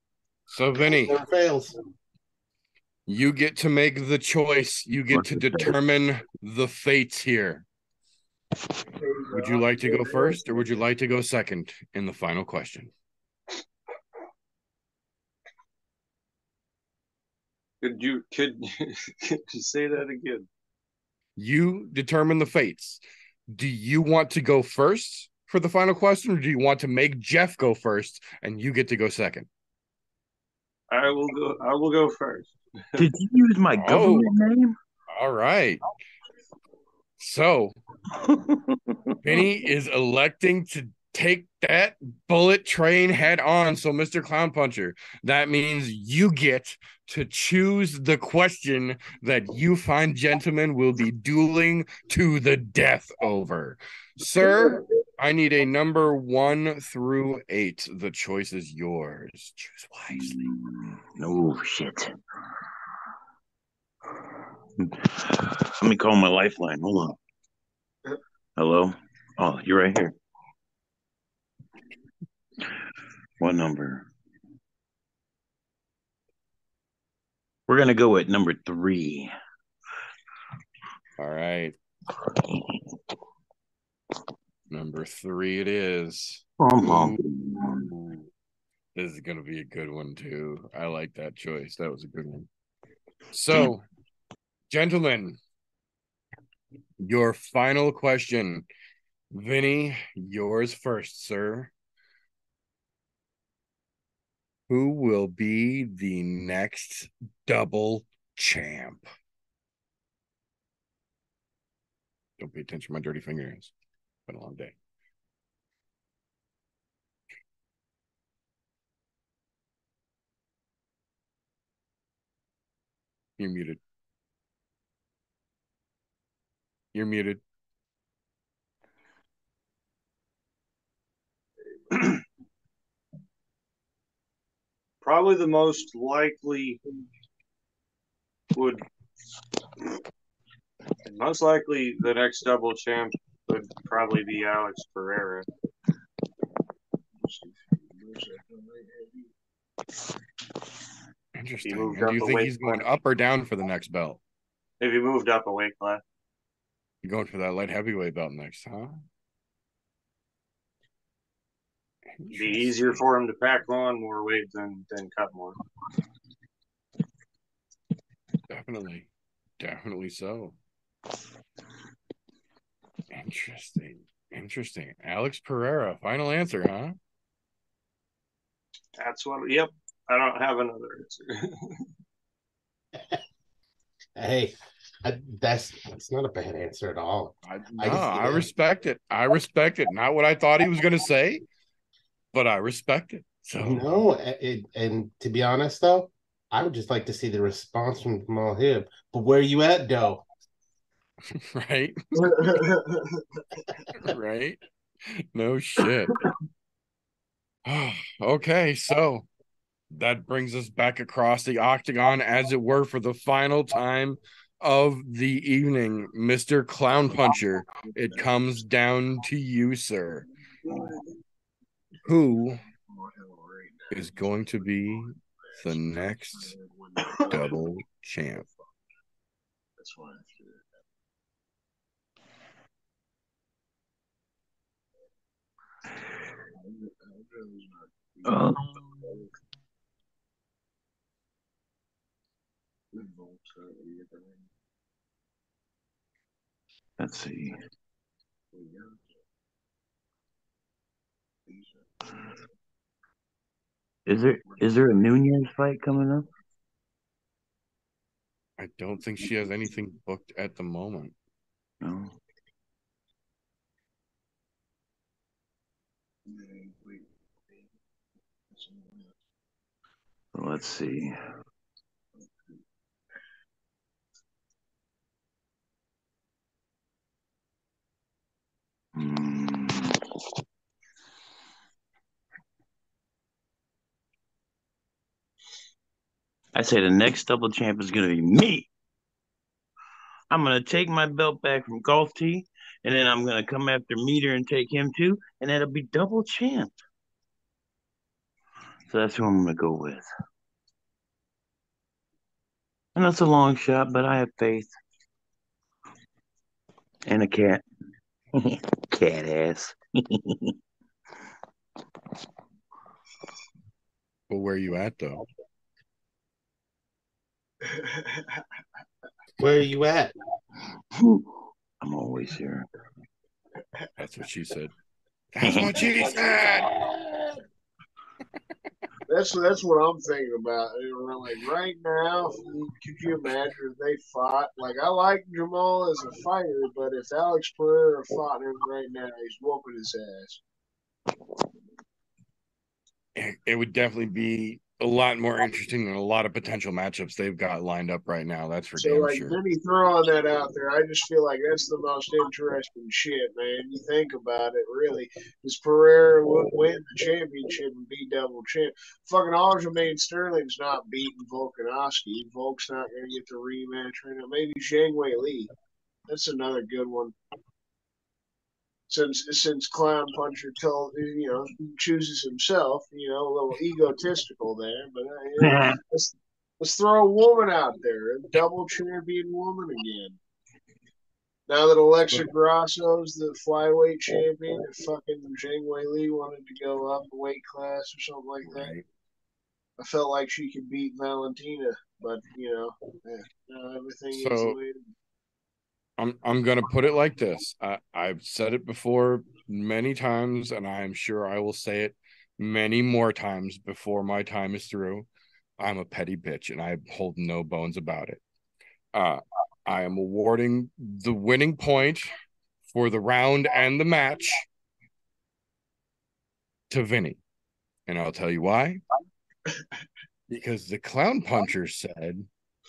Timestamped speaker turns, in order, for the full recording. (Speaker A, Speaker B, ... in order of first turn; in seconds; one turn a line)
Speaker A: 0.5-1.2
Speaker B: 0.8-1.7
Speaker A: 3.1-7.6
Speaker C: 5.1-5.7
Speaker D: 9.0-10.8
Speaker A: 9.3-12.9
Speaker E: 17.8-20.5
Speaker A: 21.4-29.5
Speaker E: 30.9-33.1
Speaker C: 33.0-34.7
Speaker A: 33.8-34.3
Speaker A: 35.1-35.8
Speaker A: 37.2-37.7
Speaker C: 38.1-39.1
Speaker A: 39.2-60.3
Speaker C: 60.1-62.2
Speaker C: 64.8-67.2
Speaker C: 68.6-70.2
Speaker C: 73.4-74.1
Speaker C: 77.7-79.3
Speaker A: 81.2-81.7
Speaker C: 82.3-82.8
Speaker A: 84.7-87.2
Speaker C: 86.6-87.9
Speaker A: 87.7-88.2
Speaker A: 88.9-92.5
Speaker A: 93.3-93.8
Speaker A: 94.7-95.4
Speaker A: 97.0-98.7
Speaker A: 99.3-101.7
Speaker A: 104.7-109.1
Speaker A: 112.4-113.7
Speaker A: 114.3-114.7
Speaker A: 123.4-123.8
Speaker A: 126.9-127.4
Speaker E: 131.9-132.2
Speaker E: 135.0-136.8
Speaker E: 138.5-138.8
Speaker E: 141.0-145.4
Speaker D: 147.2-149.3
Speaker A: 151.3-154.2
Speaker E: 151.6-152.8
Speaker E: 154.8-156.0
Speaker A: 157.0-159.0
Speaker A: 162.2-163.0
Speaker E: 162.3-165.6
Speaker A: 168.5-169.1
Speaker A: 169.6-170.6
Speaker A: 173.1-176.9
Speaker E: 179.0-181.8
Speaker B: 184.2-188.5
Speaker A: 187.5-191.4
Speaker A: 192.3-194.0
Speaker B: 193.6-200.2
Speaker A: 201.3-202.6
Speaker D: 202.2-203.2
Speaker A: 204.0-206.2
Speaker A: 207.7-209.3
Speaker A: 209.9-220.2
Speaker D: 217.7-218.3
Speaker D: 220.6-221.1
Speaker A: 222.0-222.6
Speaker D: 222.6-227.6
Speaker A: 223.9-226.5
Speaker A: 227.2-228.4
Speaker D: 228.3-228.7
Speaker D: 229.8-230.7
Speaker D: 236.5-239.3
Speaker C: 238.2-239.1
Speaker D: 242.9-244.4
Speaker C: 247.0-247.6
Speaker D: 248.5-249.1
Speaker D: 251.5-251.9
Speaker C: 254.1-256.2
Speaker D: 254.5-254.7
Speaker A: 258.6-261.1
Speaker C: 261.8-262.1
Speaker D: 266.2-267.7
Speaker D: 268.5-269.1
Speaker C: 270.3-271.1
Speaker C: 278.9-280.0
Speaker C: 286.5-288.7
Speaker C: 290.3-296.7
Speaker C: 298.9-300.1
Speaker C: 302.9-304.7
Speaker C: 307.1-307.6
Speaker C: 308.3-310.5
Speaker A: 314.3-315.2
Speaker D: 317.6-318.4
Speaker B: 319.4-320.1
Speaker C: 320.9-321.3
Speaker C: 321.8-322.7
Speaker A: 324.0-324.7
Speaker A: 325.3-326.7
Speaker C: 325.4-325.9
Speaker D: 329.1-340.4
Speaker A: 343.1-349.4
Speaker D: 348.8-365.5
Speaker D: 366.1-367.1
Speaker D: 368.9-380.2
Speaker C: 375.4-375.8
Speaker D: 381.5-388.7
Speaker A: 388.4-388.8
Speaker D: 389.8-394.9
Speaker A: 394.1-394.6
Speaker A: 396.0-405.1
Speaker A: 405.6-408.2
Speaker A: 408.9-412.1
Speaker A: 412.7-414.4
Speaker A: 416.7-417.2
Speaker A: 417.9-418.8
Speaker A: 420.3-422.3